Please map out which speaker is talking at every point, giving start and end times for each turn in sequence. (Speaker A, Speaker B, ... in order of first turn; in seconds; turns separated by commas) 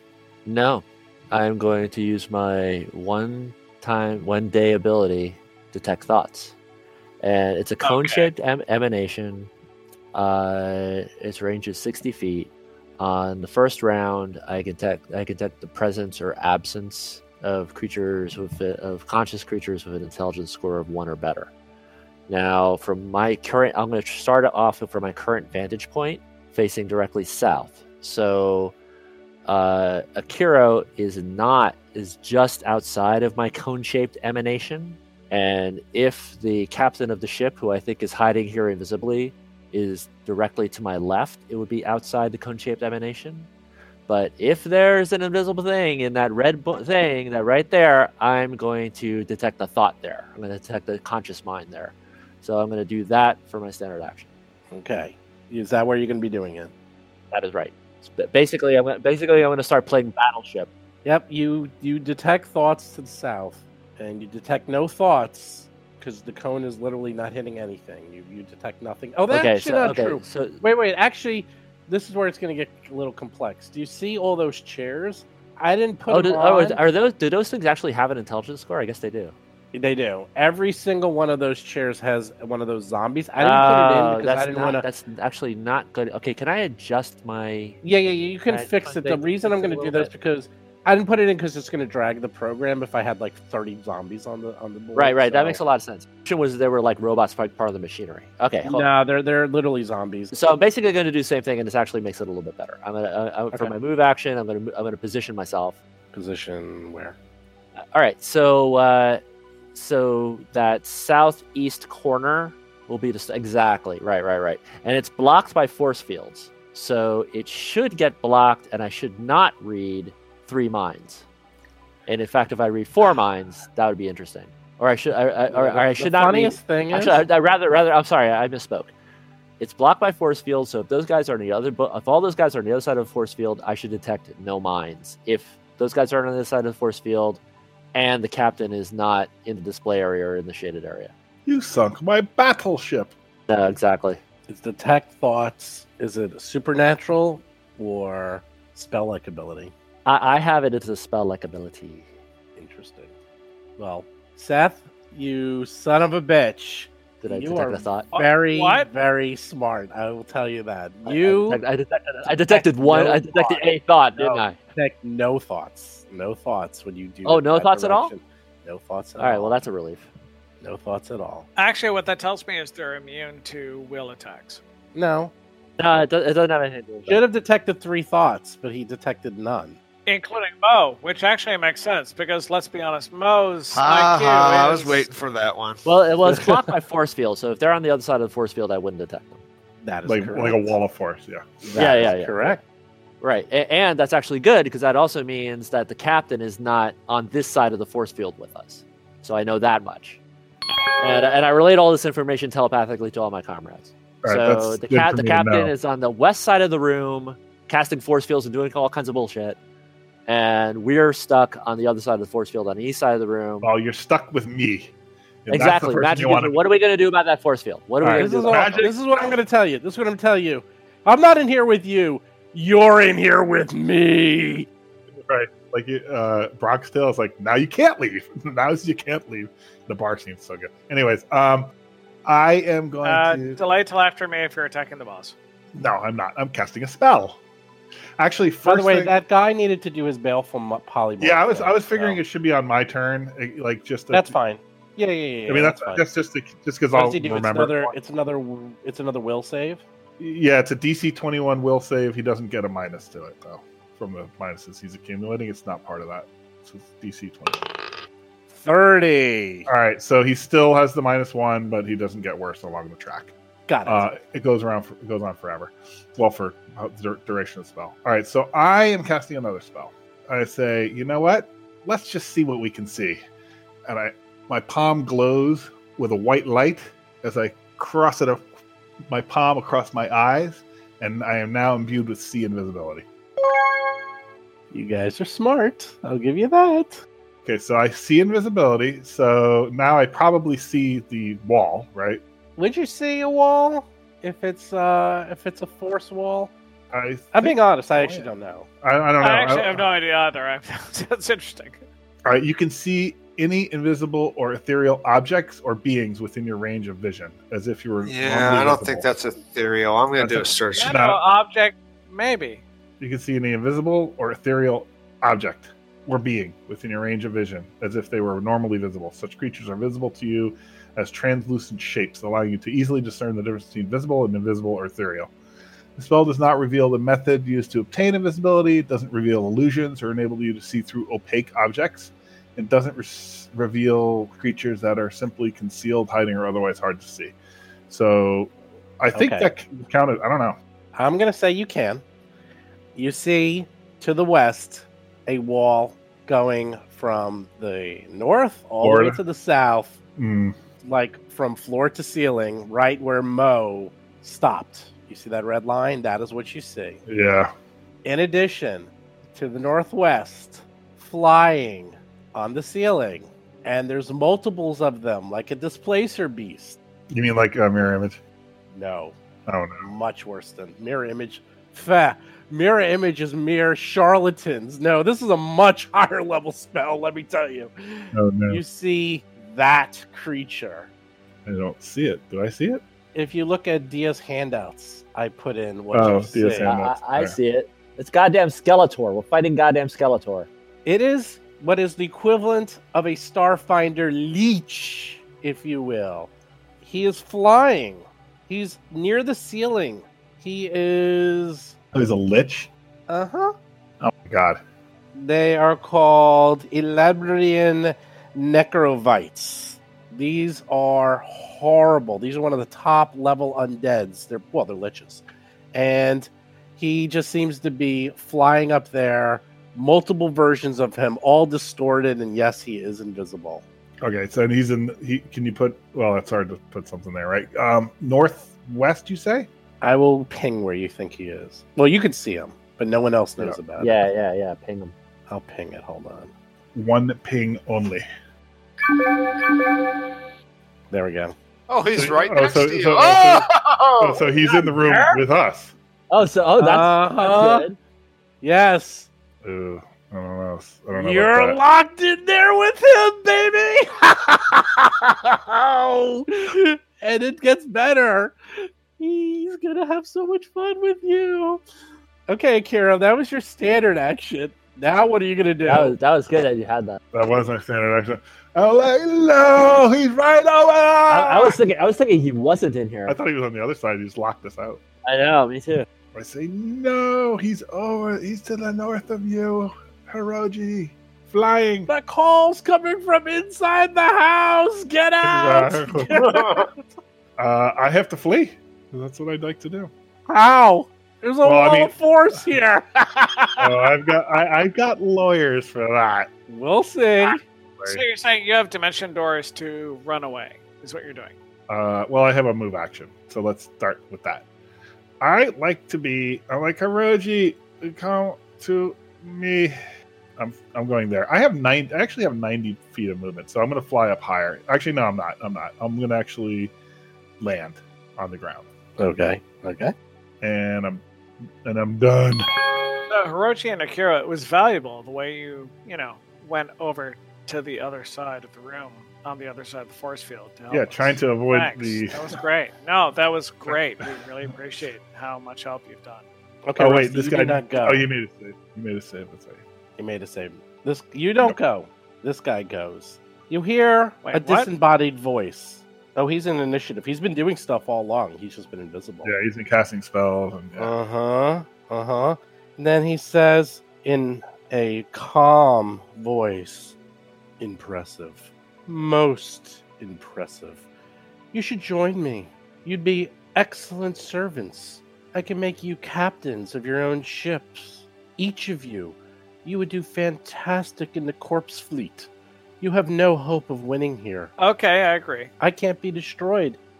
Speaker A: 0.4-6.5, Speaker A: 7.2-9.5, Speaker B: 7.8-8.3, Speaker A: 10.1-21.5, Speaker A: 22.3-28.7, Speaker A: 29.4-43.5, Speaker A: 44.1-54.3, Speaker C: 54.7-56.7, Speaker A: 57.3-60.7, Speaker C: 61.0-76.8, Speaker A: 69.3-70.6, Speaker A: 76.1-79.3, Speaker C: 79.7-84.8, Speaker A: 83.4-87.8, Speaker C: 87.8-95.6, Speaker A: 88.5-90.1, Speaker A: 94.9-98.9, Speaker C: 98.6-100.3, Speaker A: 100.3-105.8, Speaker C: 106.1-107.2, Speaker A: 107.9-109.2, Speaker A: 109.7-121.2, Speaker A: 122.1-128.9, Speaker C: 125.5-127.2, Speaker A: 129.6-137.4, Speaker A: 137.9-141.1, Speaker D: 141.4-143.1, Speaker A: 143.5-144.2, Speaker C: 144.5-149.7, Speaker A: 150.0-152.1, Speaker C: 152.6-153.1, Speaker C: 153.8-161.6, Speaker A: 157.2-158.1, Speaker B: 158.1-158.9, Speaker A: 161.1-164.6, Speaker C: 162.2-169.5, Speaker A: 167.2-168.1, Speaker A: 169.2-170.1, Speaker C: 170.6-171.5, Speaker B: 171.6-174.6, Speaker C: 174.9-175.3, Speaker A: 175.8-177.2, Speaker C: 177.1-179.8, Speaker B: 180.1-185.1, Speaker E: 183.7-185.9, Speaker A: 185.8-189.4, Speaker C: 189.8-190.7, Speaker D: 190.1-191.6, Speaker C: 191.6-192.6, Speaker A: 191.7-192.6, Speaker A: 193.2-200.2, Speaker A: 201.0-209.6, Speaker D: 204.2-205.7, Speaker A: 210.3-213.7, Speaker D: 213.6-214.9, Speaker D: 215.4-216.6, Speaker A: 215.5-218.9, Speaker D: 218.0-218.9, Speaker C: 218.2-224.7, Speaker D: 225.2-231.7, Speaker D: 232.2-233.6, Speaker B: 233.0-235.3, Speaker D: 235.7-237.4, Speaker D: 238.2-239.1, Speaker C: 238.6-242.2, Speaker D: 241.2-244.3, Speaker C: 244.1-246.0, Speaker D: 245.5-247.9, Speaker C: 246.9-249.8, Speaker D: 250.2-257.7, Speaker C: 258.5-259.7, Speaker D: 259.6-263.3, Speaker C: 263.7-264.1, Speaker D: 263.9-273.2, Speaker D: 273.9-278.4, Speaker D: 279.1-283.1, Speaker C: 284.7-287.0, Speaker D: 287.4-292.2, Speaker C: 292.6-296.5, Speaker D: 296.9-298.3, Speaker C: 297.3-298.7, Speaker D: 298.8-299.9, Speaker B: 299.2-301.8, Speaker D: 302.2-309.1, Speaker E: 308.0-310.9, Speaker D: 310.2-311.2, Speaker B: 310.7-312.6, Speaker D: 313.0-325.3, Speaker D: 326.0-337.3, Speaker D: 337.9-340.6, Speaker C: 339.1-339.5, Speaker C: 340.9-342.0, Speaker C: 342.9-350.0, Speaker D: 348.8-349.2, Speaker D: 350.2-350.6, Speaker C: 350.8-357.0, Speaker D: 357.1-357.5, Speaker C: 358.0-366.8, Speaker D: 367.1-368.2, Speaker C: 368.7-369.2, Speaker D: 369.5-369.9, Speaker C: 369.8-380.9, Speaker D: 378.1-378.6, Speaker D: 381.4-382.8, Speaker C: 383.1-386.7, Speaker D: 385.9-387.4, Speaker A: 386.6-390.5, Speaker C: 390.8-401.7, Speaker D: 401.9-402.7, Speaker C: 403.1-403.5, Speaker D: 404.0-404.6, Speaker C: 405.1-423.6, Speaker D: 424.0-429.5, Speaker C: 429.8-434.0, Speaker A: 433.8-434.9, Speaker C: 435.3-436.3, Speaker D: 436.7-438.0, Speaker C: 440.9-441.3, Speaker E: 441.7-444.3, Speaker D: 441.9-445.7, Speaker A: 446.1-447.8, Speaker C: 446.6-447.7, Speaker C: 448.4-449.1, Speaker D: 449.4-451.6, Speaker C: 450.9-461.6, Speaker C: 462.3-465.9, Speaker A: 465.6-467.0, Speaker D: 467.1-471.6, Speaker A: 471.1-473.2, Speaker D: 473.1-474.8, Speaker A: 475.0-475.9, Speaker D: 476.1-481.9, Speaker C: 481.9-486.7, Speaker D: 485.2-486.6, Speaker D: 487.4-489.9, Speaker C: 490.3-493.9, Speaker D: 491.4-491.9, Speaker D: 493.6-496.3, Speaker C: 496.5-497.4, Speaker B: 497.9-501.3, Speaker D: 501.7-504.4, Speaker D: 505.2-509.7, Speaker D: 510.4-516.7, Speaker D: 517.4-518.7, Speaker C: 519.0-519.9, Speaker D: 520.4-521.0, Speaker D: 521.6-522.5, Speaker B: 523.1-536.2, Speaker D: 530.7-532.2, Speaker C: 536.6-538.1, Speaker D: 536.8-539.6, Speaker C: 540.0-549.3, Speaker B: 544.2-544.7, Speaker D: 549.2-550.9, Speaker C: 550.8-557.0, Speaker C: 557.6-560.8, Speaker C: 561.5-572.3, Speaker C: 572.8-574.5, Speaker B: 574.6-575.5, Speaker C: 575.6-576.8